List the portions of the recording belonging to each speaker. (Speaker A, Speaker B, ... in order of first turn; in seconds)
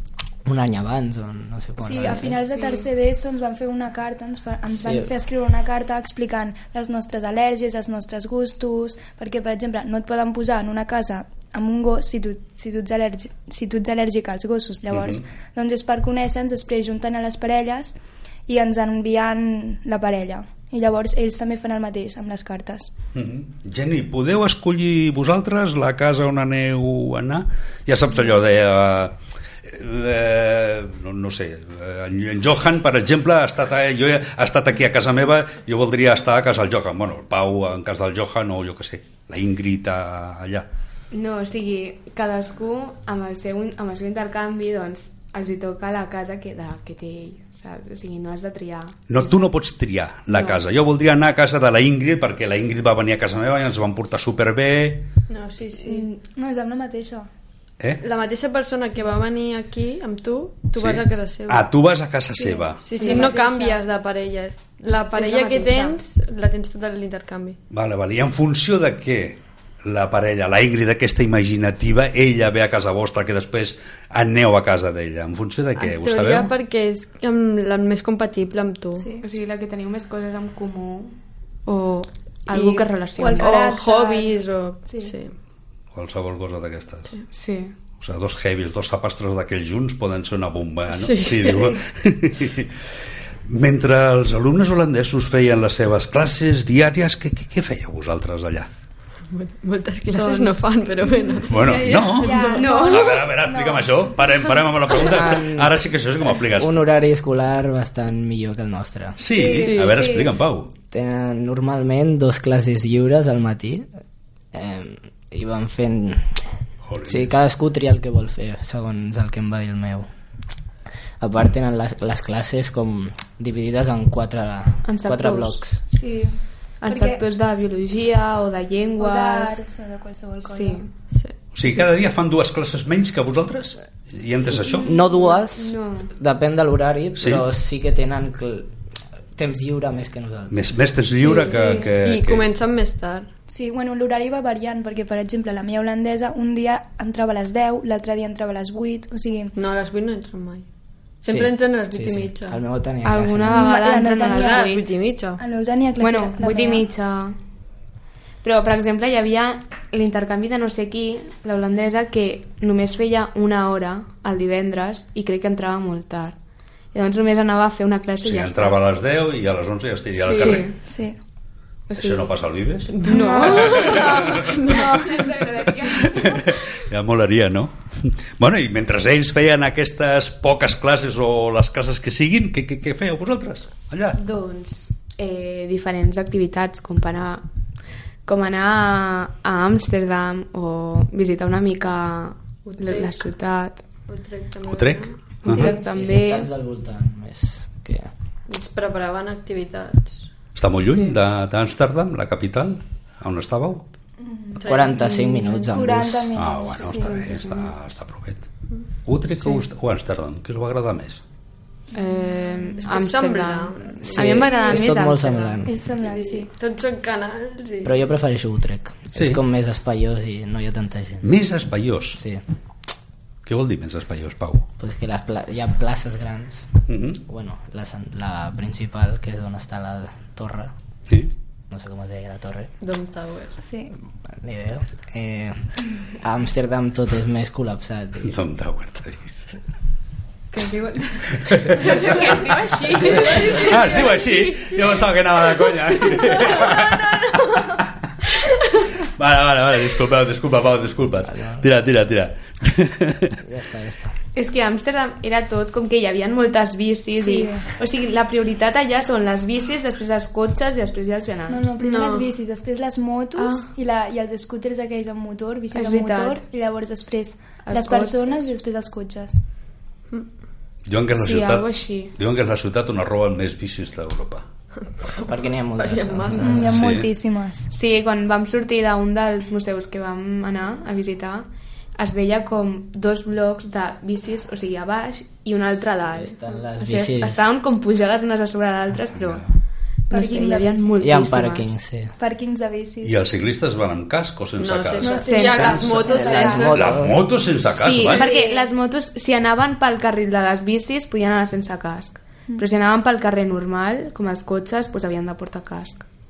Speaker A: 0.4-2.4, 4.7-5.1, 105.0-105.8, 106.5-109.2, 110.9-113.8, 114.5-116.4, 117.0-120.1, 121.2-125.8, 134.8-138.7, 139.3-140.6, 151.3-153.8, 195.5-198.1, 204.6-206.3, 214.0-215.7, 217.8-221.3, 224.8-226.7, 227.2-230.7, 231.7-232.7, 234.4-238.3, 251.3-251.6, 253.4-254.1, 275.1-276.9, 286.1-287.5, 291.0-292.1, 295.7-297.2
Speaker B: 1.8-22.9, 56.3-57.3, 62.8-63.8, 79.0-79.2, 83.2-85.1, 100.2-101.5, 102.1-104.2, 109.3-110.3, 125.9-127.2, 129.0-130.8, 141.3-141.9, 143.5-149.5, 153.5-154.7, 155.4-156.9, 170.9-171.2, 173.1-175.1, 205.7-207.3, 214.4-214.9, 215.6-216.5, 233.6-233.9, 257.2-257.7, 261.5-269.4, 276.4-277.7, 290.1-291.0, 292.2-293.2, 295.0-296.7, 298.0-298.7
Speaker C: 14.9-15.2, 23.1-40.7, 49.1-55.1, 60.8-62.8, 67.7-76.5, 85.9-87.1, 88.0-92.8, 93.4-98.7, 101.5-106.8, 109.2-110.7, 116.8-117.3, 131.5-135.0, 137.2-137.4, 140.5-142.5, 168.2-170.7, 171.9-174.5, 176.0-184.2, 194.7-195.7, 200.6-203.8, 206.3-208.4, 209.0-211.2, 219.1-219.4, 221.2-222.2, 223.4-224.7, 226.9-227.2, 238.2-239.3, 241.4-242.1, 243.1-247.8, 249.0-253.4, 270.9-274.4, 276.7-277.1, 289.1-289.4, 293.0-295.9, 296.7-298.3
Speaker D: 41.1-49.5, 50.3-50.6, 55.9-56.2, 63.0-63.3, 65.1-66.0, 79.2-81.1, 81.7-83.7, 87.3-87.7, 102.5-103.2, 124.8-125.7, 126.8-129.6, 130.4-130.9, 134.9-136.1, 153.0-154.8, 156.0-157.3, 158.4-166.3, 166.9-168.8, 170.2-170.8, 171.9-172.3, 173.0-176.6, 184.2-187.4, 188.2-193.8, 195.4-196.5, 200.8-201.2, 205.1-205.6, 206.9-207.7, 211.9-215.6, 240.5-244.1, 254.3-261.6, 265.7-266.4, 267.6-268.5, 271.1-272.1, 277.7-289.5, 290.1-291.7, 295.2-296.6, 297.7-306.0
Speaker E: 55.3-56.1, 58.0-61.7, 62.8-67.6, 75.8-79.1, 82.5-85.3, 90.9-91.8, 99.3-102.9, 109.5-110.0, 141.4-143.3, 149.5-150.7, 151.2-152.6, 154.2-155.4, 170.2-170.6, 172.9-174.9, 192.7-193.3, 194.1-195.2, 198.5-200.3, 204.6-205.1, 212.8-214.6, 216.0-218.0, 232.8-233.6, 242.9-243.8, 261.8-262.3, 275.0-276.6, 294.6-297.0